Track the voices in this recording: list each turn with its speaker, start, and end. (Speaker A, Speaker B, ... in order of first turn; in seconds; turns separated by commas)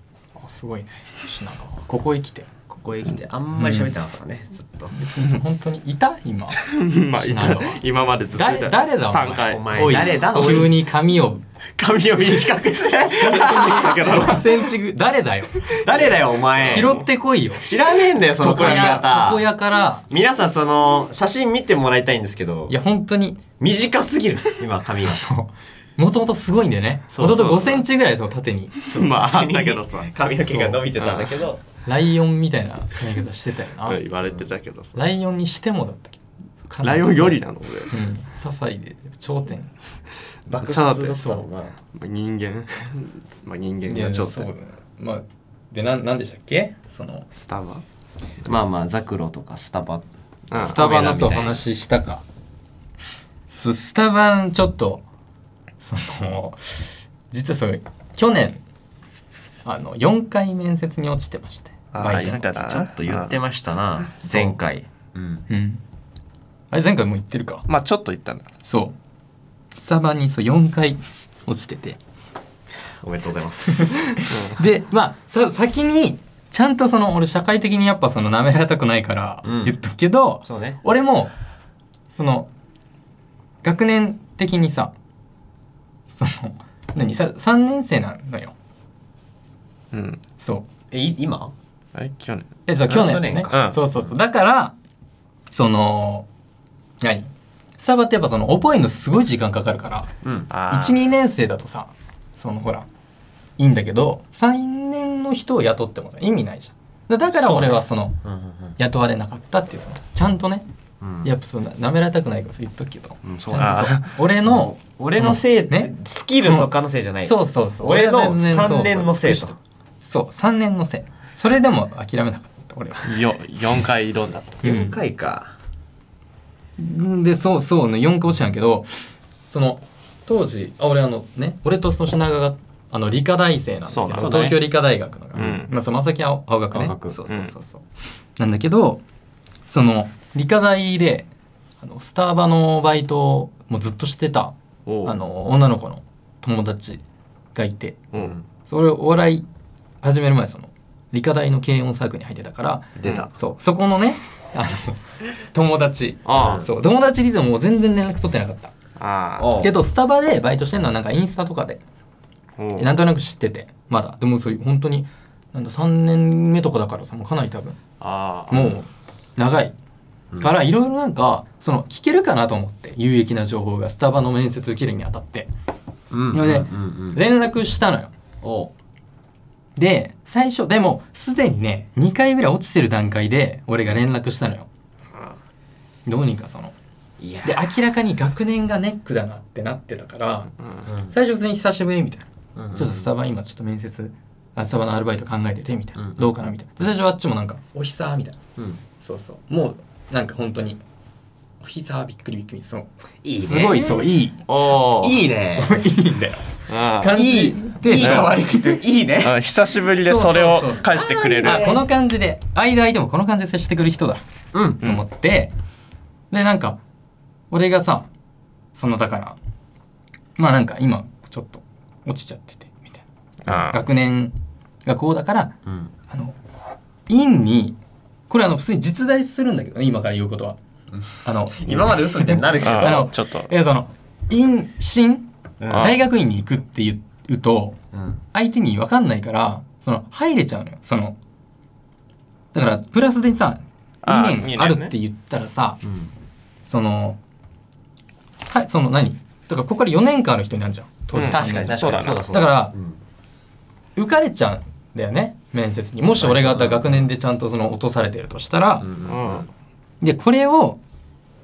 Speaker A: 0.4-2.5, Speaker B: 2.7-4.9, Speaker A: 3.6-3.8, Speaker A: 4.9-6.6, Speaker C: 6.6-9.8, Speaker A: 7.2-7.8, Speaker A: 8.3-11.4, Speaker B: 9.5-10.8, Speaker B: 11.8-14.4, Speaker C: 13.1-14.6, Speaker A: 13.4-15.7, Speaker B: 15.8-16.9, Speaker C: 15.8-17.1, Speaker A: 16.6-17.7, Speaker B: 17.6-19.4, Speaker C: 18.4-19.0, Speaker A: 18.5-20.1, Speaker B: 20.1-22.7, Speaker A: 22.7-23.4, Speaker B: 23.6-25.2, Speaker A: 25.0-28.7, Speaker B: 27.1-27.7, Speaker C: 27.3-27.8, Speaker B: 28.8-31.6, Speaker C: 28.9-30.1, Speaker C: 30.7-31.4, Speaker A: 31.8-34.0, Speaker C: 33.8-35.0, Speaker A: 34.9-39.8, Speaker C: 36.8-37.9, Speaker B: 40.5-41.7, Speaker C: 40.6-41.2, Speaker A: 41.1-41.5, Speaker C: 41.9-44.5, Speaker A: 43.8-47.3, Speaker C: 47.3-47.8, Speaker B: 48.4-51.6, Speaker C: 50.5-50.9, Speaker A: 50.6-52.2, Speaker A: 53.5-55.0, Speaker A: 55.8-58.6, Speaker A: 59.6-62.4, Speaker C: 61.9-63.4, Speaker B: 62.0-65.5, Speaker A: 65.5-65.8, Speaker A: 66.7-67.7, Speaker C: 67.7-68.5, Speaker A: 68.6-69.0, Speaker A: 69.8-72.0, Speaker B: 73.0-74.0, Speaker A: 73.7-81.3, Speaker C: 74.3-74.6, Speaker B: 79.4-79.8, Speaker B: 80.4-80.8, Speaker A: 82.1-82.5, Speaker A: 83.6-84.9, Speaker A: 86.1-88.5, Speaker C: 89.9-90.2, Speaker A: 90.4-90.7, Speaker B: 90.9-91.5, Speaker C: 91.9-93.8, Speaker A: 92.7-94.7, Speaker B: 92.9-94.1, Speaker A: 95.5-96.3, Speaker A: 97.0-100.1, Speaker B: 100.2-100.5, Speaker C: 100.5-101.0, Speaker A: 100.7-102.8, Speaker A: 103.6-108.2, Speaker B: 107.3-108.8, Speaker A: 108.8-110.6, Speaker B: 111.0-111.3, Speaker A: 111.2-116.7, Speaker B: 113.2-113.8, Speaker C: 113.6-114.1, Speaker B: 114.4-119.5, Speaker A: 117.2-123.8, Speaker C: 123.0-124.6, Speaker A: 124.6-124.9, Speaker B: 124.6-125.5, Speaker A: 126.8-137.8, Speaker C: 133.9-134.5, Speaker B: 134.1-134.6, Speaker C: 135.3-135.7, Speaker B: 136.7-137.2, Speaker A: 138.4-139.0, Speaker A: 139.7-141.3, Speaker A: 141.8-144.5, Speaker C: 144.8-145.2, Speaker A: 145.0-147.0, Speaker A: 147.5-148.0, Speaker B: 148.2-148.4, Speaker A: 148.7-149.4, Speaker A: 150.0-158.7, Speaker B: 152.9-153.3, Speaker C: 156.2-156.6, Speaker B: 156.3-156.7, Speaker C: 159.0-159.5, Speaker B: 159.4-159.7, Speaker A: 159.6-161.8, Speaker C: 162.6-162.9, Speaker A: 162.8-167.8, Speaker C: 168.0-168.8, Speaker A: 168.5-169.7, Speaker A: 170.4-175.5, Speaker B: 176.1-177.2, Speaker A: 176.3-178.1, Speaker B: 178.4-178.7, Speaker A: 179.8-184.7, Speaker C: 185.1-185.4, Speaker A: 186.1-186.7, Speaker B: 187.2-187.8, Speaker A: 187.4-190.5, Speaker B: 190.8-191.1, Speaker A: 191.1-198.4, Speaker B: 192.6-193.1, Speaker B: 196.0-196.3, Speaker A: 199.0-200.8, Speaker A: 201.6-202.9, Speaker B: 203.2-204.1, Speaker A: 203.4-204.4, Speaker C: 204.4-205.2, Speaker B: 205.0-205.8, Speaker A: 205.6-208.4, Speaker C: 206.7-207.1, Speaker B: 207.1-209.3, Speaker C: 207.9-208.3, Speaker C: 209.2-211.8, Speaker A: 210.0-214.2, Speaker B: 210.9-211.8, Speaker B: 214.5-214.8, Speaker A: 214.8-215.5, Speaker A: 216.3-216.8, Speaker A: 217.5-218.1, Speaker A: 218.7-219.4, Speaker A: 220.4-224.3, Speaker C: 223.4-223.8, Speaker A: 224.8-225.5, Speaker B: 225.7-225.9, Speaker A: 226.1-226.3, Speaker A: 227.1-227.8, Speaker A: 228.3-230.6, Speaker A: 231.2-237.8, Speaker B: 231.5-233.1, Speaker C: 232.6-233.5, Speaker B: 235.6-236.0, Speaker C: 235.7-236.0, Speaker B: 237.9-238.2, Speaker A: 238.3-241.2, Speaker A: 242.5-245.8, Speaker C: 244.0-244.9, Speaker B: 245.8-246.1, Speaker A: 246.6-247.2, Speaker A: 248.5-252.7, Speaker C: 251.1-252.2, Speaker B: 251.2-253.0, Speaker A: 253.9-258.9, Speaker B: 256.2-257.1, Speaker B: 258.8-259.4, Speaker C: 259.1-259.5, Speaker A: 260.0-260.8